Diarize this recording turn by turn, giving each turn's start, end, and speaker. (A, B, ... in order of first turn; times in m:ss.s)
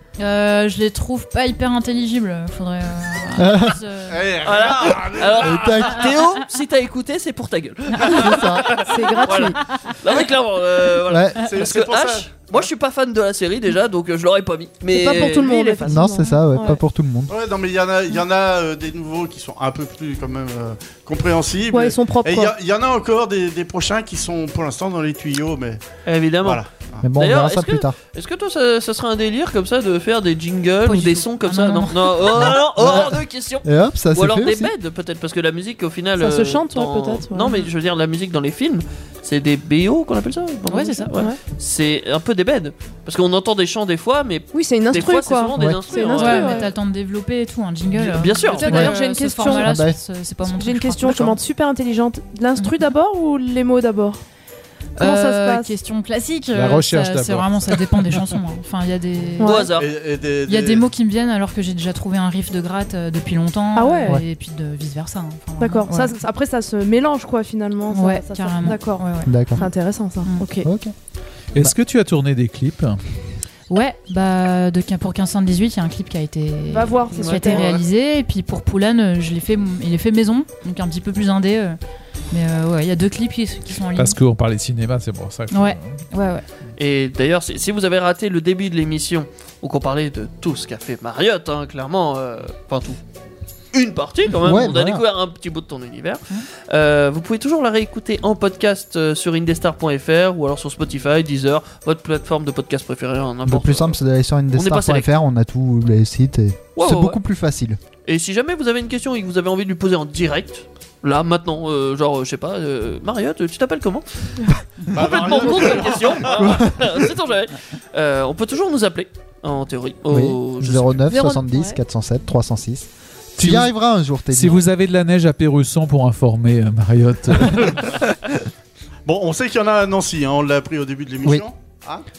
0:00.2-0:04.2 A
0:03.4-0:03.8 B
0:04.0-0:05.9 C
0:04.4-0:16.0 D
0:05.4-0:06.1 B
0:08.1-0:08.8 B
0:08.8-0:09.6 E
0:11.1-0:11.4 B
0:11.4-0:12.7 C
0:14.9-0:16.8 E
0:15.8-0:17.3 B
0:17.3-0:25.8 C
0:21.7-0:22.5 E
0:26.0-0:26.6 D
0:26.4-0:27.0 C
0:27.0-0:27.9 B
0:27.2-0:46.6 D
0:30.8-0:32.5 A
0:32.3-0:34.7 B
0:36.2-0:37.6 E
0:40.7-0:41.2 A
0:44.5-0:46.7 E
0:46.1-0:51.3 A
0:48.1-0:48.9 D
0:48.5-0:49.7 E
0:49.5-0:50.0 B
0:50.5-0:54.2 E
0:55.0-0:59.6 A
0:55.0-0:55.7 E
0:56.5-0:58.2 F
0:59.4-0:59.7 E
0:59.4-0:59.9 D
0:59.8-1:00.8 C
1:00.5-1:06.1 A
1:03.7-1:04.2 E
1:05.6-1:10.7 E
1:07.9-1:09.7 A
1:09.2-1:09.7 B
1:10.6-1:10.9 B
1:11.5-1:13.0 F
1:13.7-1:21.8 A
1:16.7-1:17.7 E
1:17.2-1:17.6 D
1:22.3-1:24.2 A
1:24.0-1:26.0 F
1:25.5-1:26.4 A
1:26.8-1:33.0 D
1:33.7-1:44.0 D
1:34.4-1:35.0 B
1:43.4-1:47.8 B
1:44.5-1:45.1 D
1:46.8-1:47.2 D
1:48.0-2:01.0 D
1:54.9-1:56.6 C
1:56.4-1:57.0 B
2:00.1-2:04.6 B
2:01.1-2:01.8 E
2:03.4-2:03.7 F
2:04.3-2:08.0 F
2:09.0-2:12.0 C